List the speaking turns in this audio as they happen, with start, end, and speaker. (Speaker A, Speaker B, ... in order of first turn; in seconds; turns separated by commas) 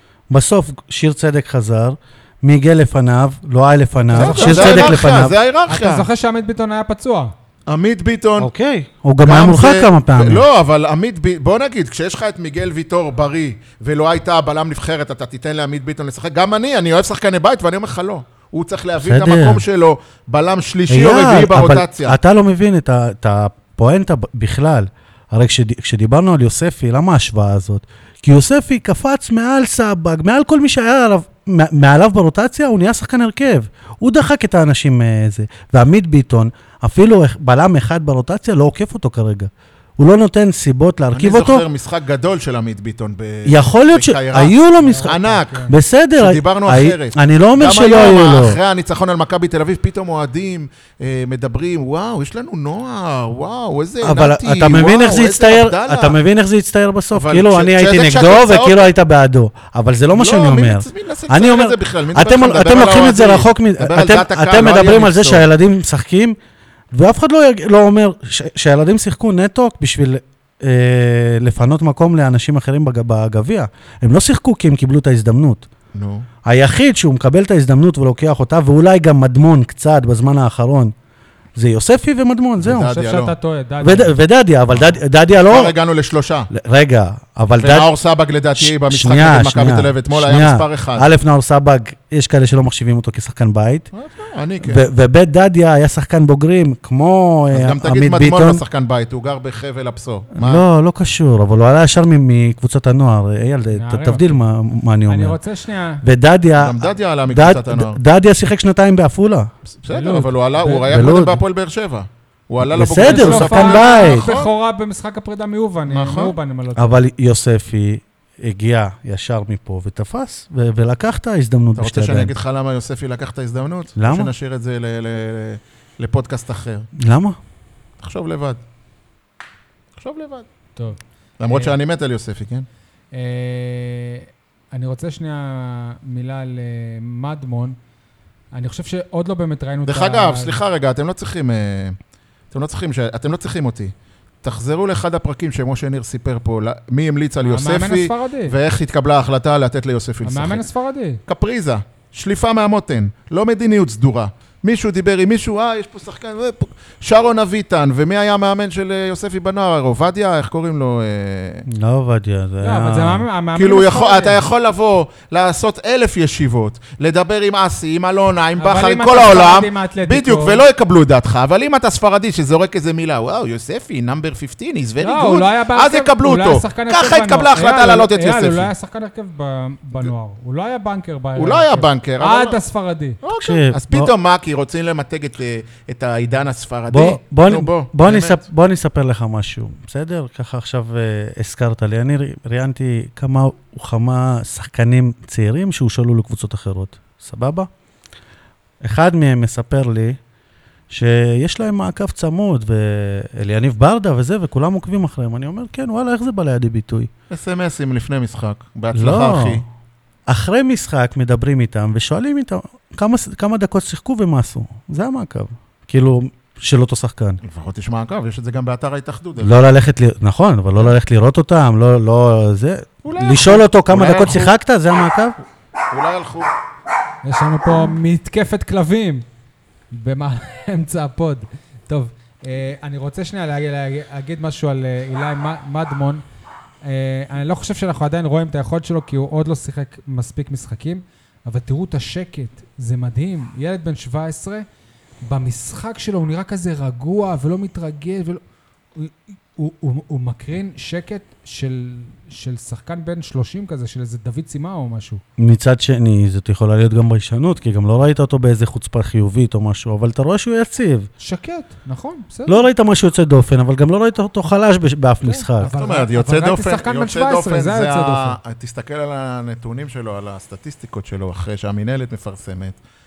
Speaker A: 0.3-5.3, Speaker B: 4.1-5.0, Speaker C: 4.1-6.1, Speaker B: 5.7-7.3, Speaker C: 7.7-8.5, Speaker A: 8.4-10.4, Speaker C: 9.2-22.2, Speaker A: 19.0-19.6, Speaker A: 20.9-41.6, Speaker C: 41.1-56.2, Speaker A: 43.5-45.1, Speaker B: 44.8-45.7, Speaker A: 45.7-48.6, Speaker A: 54.0-66.4, Speaker C: 57.1-58.9, Speaker C: 60.1-65.4, Speaker A: 66.9-75.7, Speaker C: 75.9-76.3, Speaker A: 76.4-80.9, Speaker A: 81.5-82.9, Speaker C: 82.6-83.3, Speaker B: 82.8-84.1, Speaker A: 83.8-85.7, Speaker C: 85.5-86.5, Speaker A: 86.5-87.9, Speaker C: 87.6-91.1, Speaker A: 88.5-93.9, Speaker C: 93.9-94.8, Speaker A: 94.6-98.6, Speaker C: 97.5-100.6, Speaker A: 100.3-105.4, Speaker B: 103.7-104.4, Speaker B: 105.1-106.0, Speaker A: 106.0-109.5, Speaker C: 106.6-108.0, Speaker C: 109.8-114.5, Speaker B: 109.9-110.9, Speaker A: 110.8-111.4, Speaker A: 112.6-114.3, Speaker B: 113.0-117.0, Speaker C: 115.9-116.3, Speaker A: 116.8-122.3, Speaker C: 121.8-126.9, Speaker A: 124.0-124.3, Speaker A: 127.0-127.4, Speaker C: 128.0-128.6, Speaker C: 130.0-130.4, Speaker B: 130.8-131.8, Speaker C: 131.4-132.7, Speaker B: 133.1-137.8, Speaker B: 138.5-140.6, Speaker C: 139.8-142.0, Speaker C: 142.5-150.6, Speaker B: 147.4-148.5, Speaker B: 150.2-151.2, Speaker C: 151.2-161.6, Speaker A: 161.7-163.2, Speaker B: 162.6-164.4, Speaker C: 163.6-178.7, Speaker B: 168.6-170.6, Speaker B: 175.0-183.2, Speaker C: 181.3-182.6, Speaker C: 183.2-188.4, Speaker A: 183.4-184.1, Speaker A: 186.9-197.7, Speaker A: 198.8-200.2, Speaker A: 200.9-207.1, Speaker C: 207.3-209.6, Speaker A: 208.9-209.6, Speaker A: 210.3-217.4, Speaker C: 217.4-219.5, Speaker A: 219.4-225.3, Speaker C: 223.0-224.5, Speaker C: 225.9-226.5, Speaker B: 227.2-229.2, Speaker B: 229.9-236.2, Speaker B: 236.8-244.7, Speaker B: 245.2-248.4, Speaker B: 248.9-255.2, Speaker A: 255.4-261.1, Speaker B: 261.2-262.7, Speaker A: 262.5-265.7, Speaker B: 265.2-268.4, Speaker C: 265.7-272.8